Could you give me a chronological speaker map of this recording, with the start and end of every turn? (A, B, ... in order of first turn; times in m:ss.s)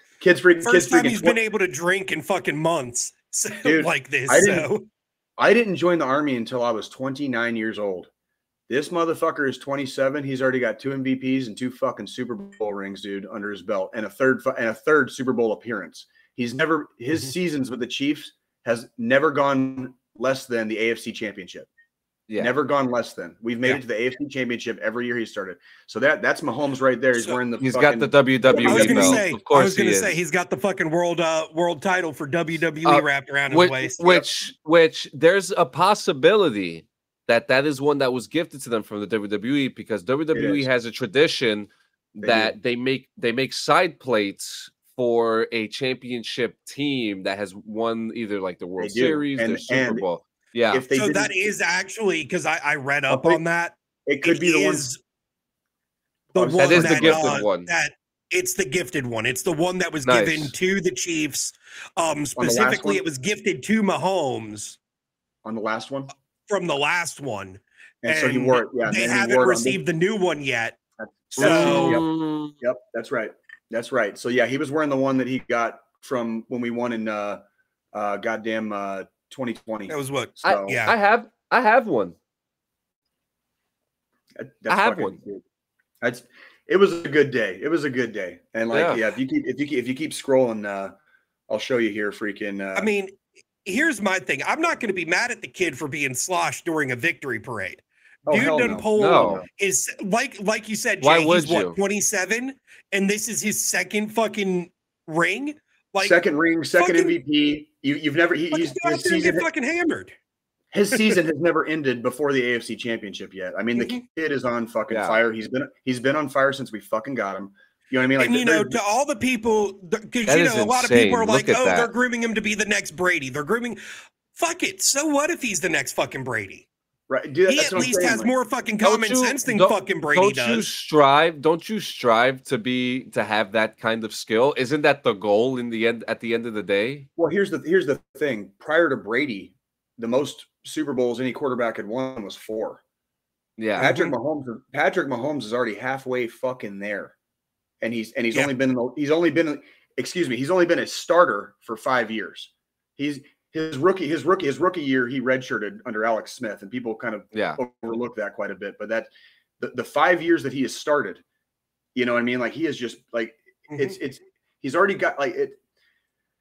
0:00.2-0:01.4 A
0:00.6-0:04.8 B
0:03.6-0:04.7 A
0:05.4-0:08.1 A
0:08.7-0:21.7 A
0:22.4-0:29.2 A
0:27.6-0:30.1 C
0:28.5-0:34.2 B
0:32.8-0:50.8 C
0:40.3-0:40.7 A
0:42.2-0:42.5 A
0:48.8-0:50.0 A
0:50.7-0:51.3 A
0:50.9-0:55.0 B
0:53.1-0:53.4 A
0:54.0-0:54.9 A
0:56.3-1:04.8 B
0:56.3-0:57.4 A
0:56.6-0:57.7 C
1:00.0-1:00.5 C
1:02.4-1:03.0 A
1:05.4-1:06.1 A
1:06.5-1:10.8 B
1:08.0-1:09.8 A
1:11.0-1:12.1 A
1:11.3-1:12.0 B
1:11.4-1:12.6 C
1:12.6-1:17.4 A
1:17.9-1:20.8 A
1:19.9-1:20.9 B
1:20.4-1:22.2 C
1:24.4-1:25.4 A
1:24.7-1:25.2 C
1:26.0-1:30.9 A
1:28.7-1:29.0 C
1:31.5-1:32.9 A
1:32.8-1:33.1 B
1:33.6-1:46.2 B
1:38.2-1:39.5 A
1:39.0-1:39.4 C
1:41.0-1:41.8 C
1:46.0-1:49.4 A
1:46.8-1:47.2 B
1:48.5-1:50.2 B
1:50.7-1:58.8 A
1:54.9-1:55.2 C
1:58.2-2:03.8 B
2:00.3-2:01.9 C
2:04.3-2:06.6 B
2:07.1-2:08.3 A
2:07.5-2:10.7 B
2:08.8-2:17.1 C
2:17.2-2:22.8 A
2:23.6-2:23.9 C
2:23.8-2:27.1 A
2:23.8-2:24.1 B
2:27.8-2:41.2 A
2:37.3-2:37.6 C
2:41.9-2:45.6 A